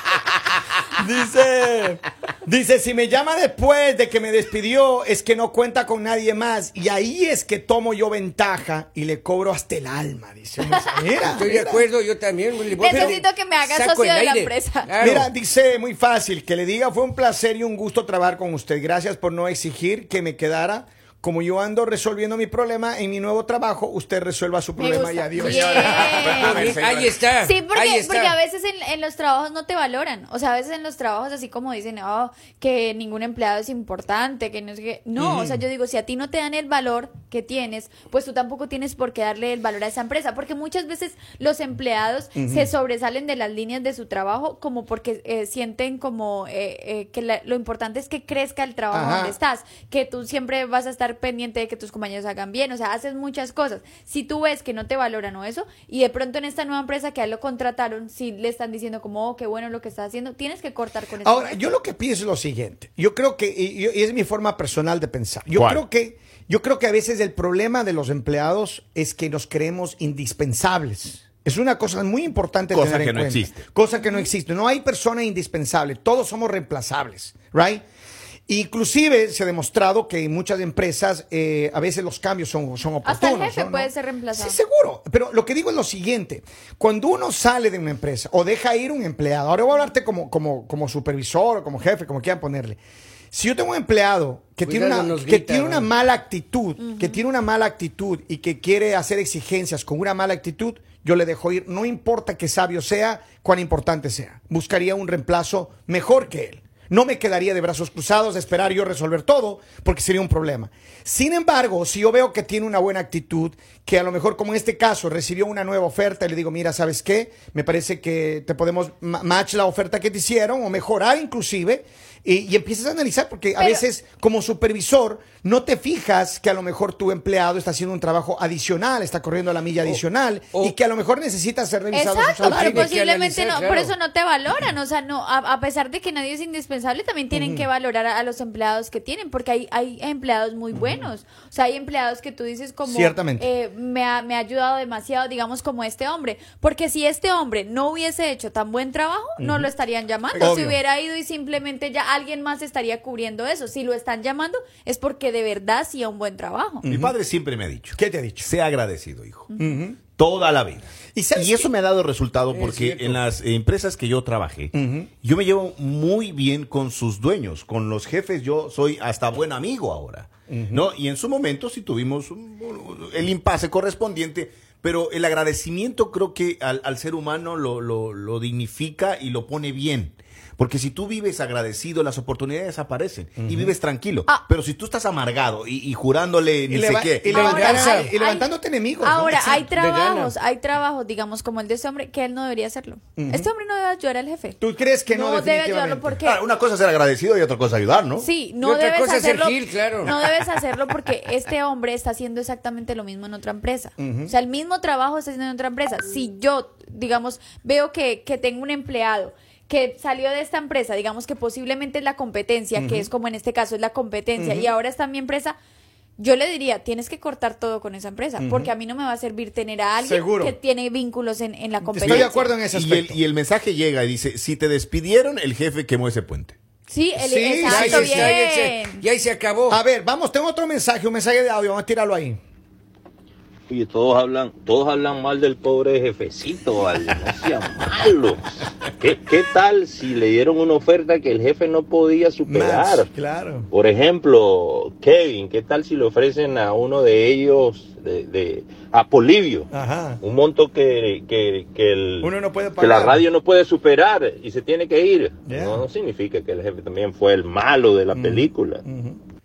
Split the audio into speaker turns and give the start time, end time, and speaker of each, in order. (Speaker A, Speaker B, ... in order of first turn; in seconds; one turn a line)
Speaker A: 1.0-11.8
Speaker B: 11.3-15.3
Speaker C: 12.8-15.0
Speaker A: 12.9-13.2
Speaker A: 15.0-26.3
Speaker C: 24.8-26.7
Speaker D: 25.4-27.2
Speaker B: 26.2-28.4
Speaker C: 27.4-61.6
Speaker A: 35.2-35.6
Speaker A: 42.4-42.7
Speaker A: 48.9-49.4
Speaker A: 61.2-77.8
Speaker D: 65.5-65.8
Speaker D: 72.7-73.6
Speaker C: 74.0-74.3
Speaker A: 78.5-92.8
Speaker C: 83.0-84.6
Speaker A: 93.3-132.9
Speaker B: 94.7-95.9
Speaker C: 96.8-97.2
Speaker C: 123.6-123.8
Speaker C: 131.9-156.8
Speaker B: 132.5-133.9
Speaker A: 137.3-137.7
Speaker A: 140.7-141.1
Speaker A: 142.8-143.5
Speaker A: 149.4-149.7
Speaker A: 150.3-150.8
Speaker A: 156.8-157.2
Speaker D: 156.9-159.5
Speaker A: 157.9-158.5
Speaker C: 159.5-159.8
Speaker A: 159.6-160.0
Speaker D: 160.2-187.9
Speaker A: 161.1-161.7
Speaker B: 162.5-163.3
Speaker A: 164.7-165.1
Speaker A: 170.5-170.9
Speaker A: 183.4-183.8
Speaker A: 186.7-189.7
Speaker C: 187.3-188.5
Speaker B: 187.3-188.1
Speaker C: 189.0-194.6
Speaker B: 189.8-190.3
Speaker A: 193.2-193.5
Speaker A: 194.6-196.2
Speaker C: 195.1-196.4
Speaker D: 196.2-198.3
Speaker C: 198.2-215.6
Speaker B: 198.6-200.2
Speaker A: 204.0-204.3
Speaker A: 212.8-213.1
Speaker A: 214.4-214.7
Speaker C: 216.2-222.5
Speaker A: 218.4-218.7
Speaker A: 220.0-220.6
Speaker A: 221.8-223.2
Speaker D: 222.0-226.6
Speaker C: 226.9-229.1
Speaker A: 227.2-228.3
Speaker B: 227.7-229.8
Speaker A: 229.7-232.4
Speaker E: 233.7-238.4
Speaker D: 233.8-235.2
Speaker D: 236.3-237.3
Speaker E: 239.0-243.1
Speaker A: 242.4-243.7
Speaker E: 243.7-249.7
Speaker D: 245.1-245.4
Speaker D: 248.6-249.6
Speaker A: 249.7-250.2
Speaker E: 250.2-258.8
Speaker D: 251.6-252.1
Speaker A: 252.2-253.2
Speaker D: 253.2-255.1
Speaker A: 255.5-255.8
Speaker D: 255.9-257.3
Speaker D: 257.9-258.4
Speaker A: 258.1-259.2